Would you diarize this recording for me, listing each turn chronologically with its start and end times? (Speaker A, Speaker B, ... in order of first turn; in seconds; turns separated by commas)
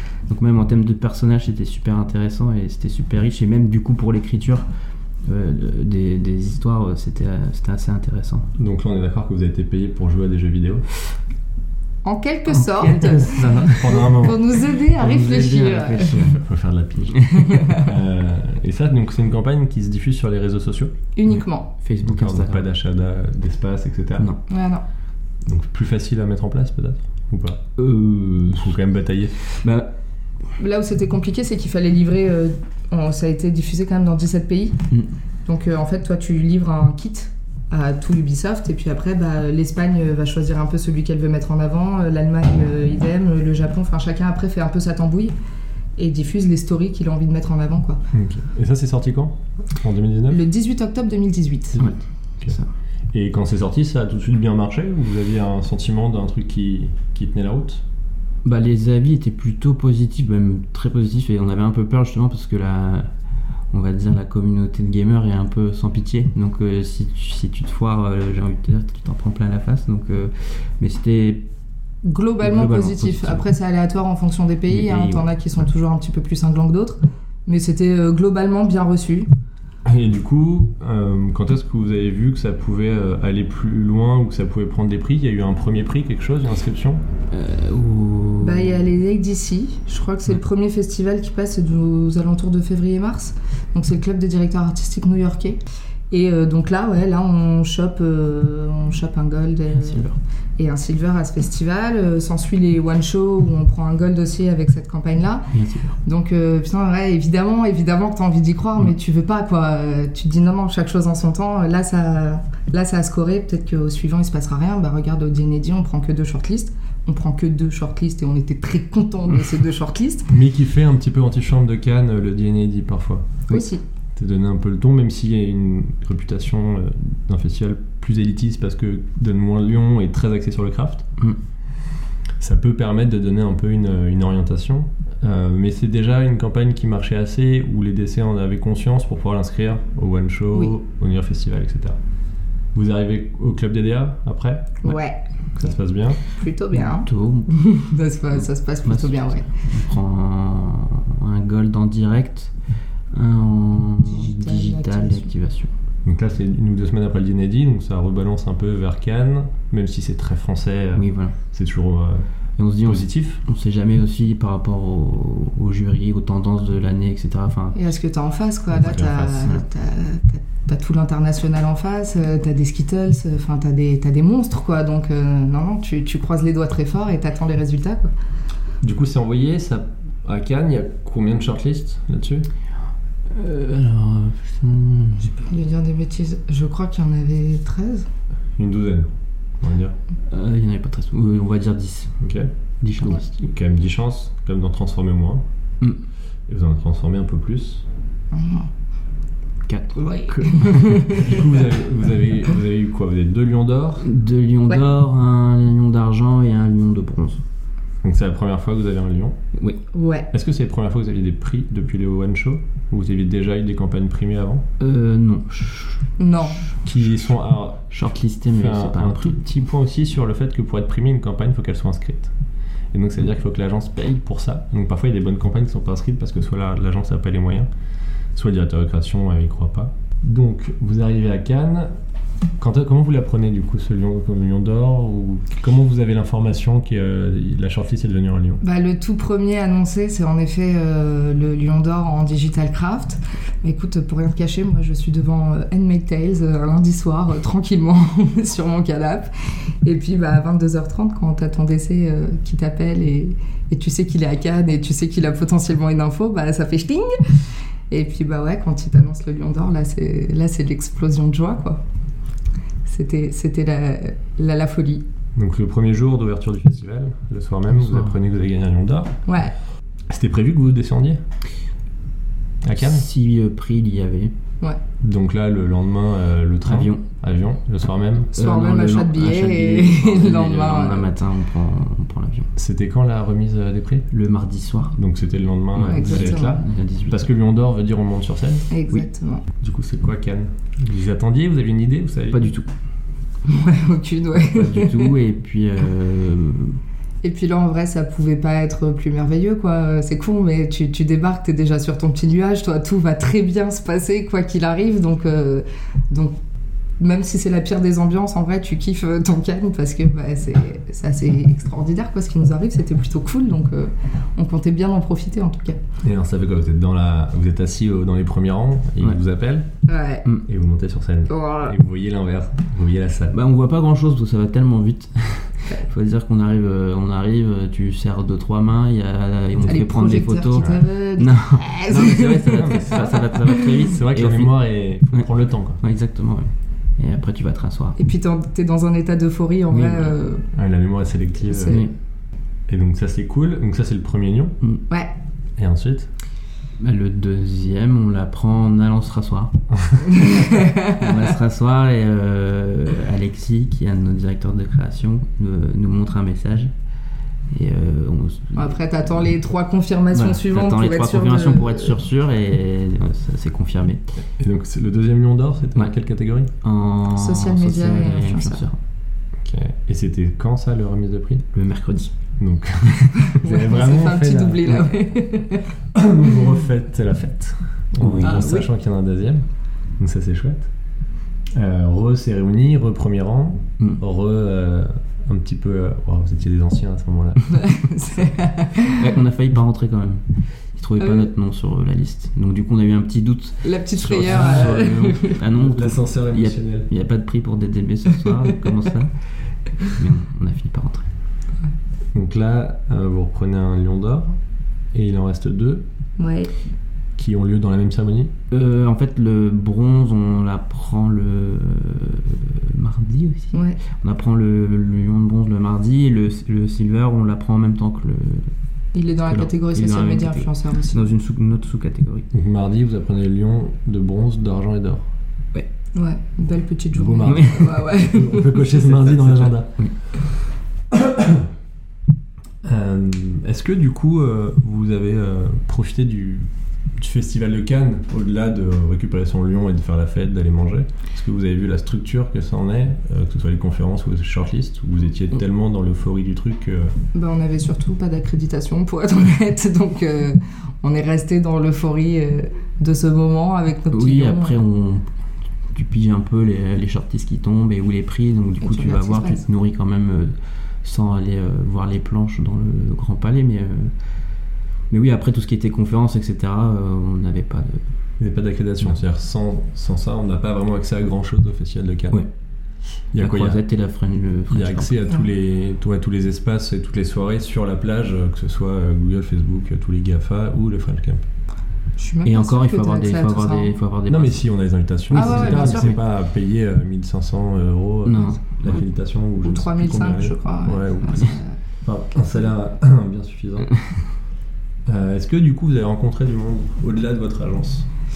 Speaker A: 0.3-4.7, Speaker A: 5.2-8.5, Speaker B: 8.6-10.9, Speaker C: 12.0-13.4, Speaker A: 12.5-14.1, Speaker B: 13.7-14.5, Speaker C: 14.0-16.3, Speaker A: 14.9-16.4, Speaker B: 16.2-20.9, Speaker A: 17.2-17.6, Speaker C: 17.4-17.8, Speaker C: 21.1-21.7, Speaker A: 21.3-22.7, Speaker B: 22.0-24.3, Speaker C: 24.5-24.8, Speaker B: 25.4-27.6, Speaker A: 27.8-28.8, Speaker B: 28.5-29.5, Speaker A: 29.6-29.9, Speaker C: 30.6-34.8, Speaker C: 35.5-45.3, Speaker C: 46.0-48.0, Speaker B: 48.1-50.4, Speaker C: 50.3-51.8, Speaker B: 51.7-52.6, Speaker A: 51.8-52.6, Speaker B: 53.1-57.8, Speaker A: 58.4-63.1, Speaker A: 63.7-71.4, Speaker C: 72.0-79.3, Speaker A: 72.4-73.5, Speaker A: 74.7-75.3, Speaker B: 79.8-87.0, Speaker A: 87.3-88.8, Speaker C: 88.4-95.6, Speaker C: 96.1-100.1, Speaker A: 99.7-100.2, Speaker C: 100.6-105.4, Speaker A: 105.5-106.0, Speaker C: 106.0-120.3, Speaker B: 120.3-123.4, Speaker C: 123.5-123.8, Speaker B: 124.2-131.0, Speaker B: 132.4-142.0, Speaker B: 142.7-144.9, Speaker C: 144.8-145.2, Speaker B: 145.5-146.2, Speaker C: 146.2-149.5, Speaker A: 146.7-147.5, Speaker A: 148.3-152.5, Speaker A: 153.1-155.7, Speaker C: 154.0-155.3, Speaker B: 156.0-162.2, Speaker A: 160.9-161.4, Speaker A: 162.6-167.9, Speaker B: 162.8-163.4, Speaker C: 167.7-178.1, Speaker B: 168.7-169.5, Speaker A: 169.2-169.6, Speaker B: 178.8-182.5, Speaker A: 183.3-185.4, Speaker C: 185.4-188.1, Speaker B: 188.6-189.1, Speaker B: 189.6-189.9, Speaker A: 190.3-192.1, Speaker B: 192.2-192.5, Speaker A: 192.8-193.2, Speaker B: 193.0-195.4, Speaker B: 196.5-197.8, Speaker C: 198.3-198.7, Speaker A: 199.7-200.9, Speaker C: 199.9-201.4, Speaker B: 200.3-204.1, Speaker A: 204.0-207.4, Speaker B: 208.0-209.4, Speaker A: 209.5-209.8, Speaker C: 209.9-210.3, Speaker B: 210.3-214.6, Speaker A: 214.8-216.1, Speaker C: 216.2-216.7, Speaker B: 216.8-222.3, Speaker A: 217.9-219.4, Speaker B: 222.9-227.7, Speaker B: 228.3-231.9, Speaker B: 232.6-238.6, Speaker C: 238.6-249.3, Speaker C: 249.8-257.1, Speaker C: 257.9-261.8, Speaker C: 262.9-265.0, Speaker B: 265.3-269.2, Speaker A: 267.7-268.2, Speaker C: 269.3-269.5, Speaker B: 270.1-271.2, Speaker B: 272.6-273.1, Speaker A: 272.8-274.3, Speaker B: 275.0-278.3, Speaker A: 276.6-277.1, Speaker C: 278.3-281.1, Speaker A: 278.3-282.5, Speaker B: 282.6-284.1, Speaker A: 284.1-285.0, Speaker B: 284.9-288.7, Speaker A: 285.7-287.3, Speaker C: 285.9-286.6, Speaker C: 288.7-289.4, Speaker B: 289.6-292.4, Speaker A: 292.3-292.7, Speaker C: 293.4-295.2, Speaker A: 294.4-296.8, Speaker C: 297.2-306.3, Speaker C: 307.0-315.8, Speaker B: 316.0-319.7, Speaker C: 319.9-320.2, Speaker B: 320.5-323.4, Speaker C: 321.3-321.8, Speaker A: 323.3-338.0, Speaker C: 329.6-333.8, Speaker B: 332.5-333.0, Speaker B: 333.8-335.8, Speaker C: 337.9-340.4, Speaker A: 339.7-340.2, Speaker B: 340.5-341.9, Speaker C: 341.4-341.9, Speaker A: 341.6-341.9, Speaker B: 342.7-344.6, Speaker B: 345.6-346.1, Speaker A: 346.8-349.6, Speaker B: 349.8-350.1, Speaker C: 350.1-351.3, Speaker A: 350.3-356.7, Speaker A: 357.5-359.2, Speaker C: 358.5-362.0, Speaker A: 360.1-364.0, Speaker B: 364.4-366.5, Speaker A: 366.6-368.8, Speaker C: 367.1-368.7, Speaker B: 369.4-371.4, Speaker A: 371.5-372.1, Speaker B: 372.4-374.8, Speaker C: 373.3-375.7, Speaker B: 375.9-379.4, Speaker A: 378.0-378.5, Speaker C: 378.2-378.7, Speaker B: 380.0-380.7, Speaker B: 381.5-387.7, Speaker C: 387.5-389.1, Speaker A: 388.9-390.2, Speaker A: 390.7-399.1, Speaker C: 393.6-395.4, Speaker B: 394.2-394.8, Speaker B: 395.5-396.9, Speaker A: 399.9-401.1, Speaker B: 402.1-404.3, Speaker B: 404.9-405.8, Speaker C: 406.2-406.5, Speaker B: 407.2-408.3, Speaker A: 408.5-418.5, Speaker C: 413.5-413.8, Speaker C: 418.9-421.1, Speaker A: 419.2-422.3, Speaker B: 422.3-425.1, Speaker C: 425.9-428.6, Speaker B: 426.9-429.7, Speaker A: 427.2-427.8, Speaker A: 428.8-429.9, Speaker B: 430.9-431.4, Speaker B: 432.6-446.9, Speaker C: 447.1-454.6, Speaker A: 453.9-455.0, Speaker A: 455.7-463.9, Speaker C: 458.6-459.4, Speaker A: 464.9-467.9, Speaker B: 468.2-472.2, Speaker B: 473.1-473.6, Speaker A: 473.2-475.0, Speaker B: 474.5-481.2, Speaker C: 482.0-483.8, Speaker A: 482.2-484.4, Speaker B: 484.1-493.7, Speaker A: 485.1-486.0, Speaker C: 485.1-485.9, Speaker A: 488.0-488.7, Speaker C: 489.4-491.6, Speaker B: 494.9-497.9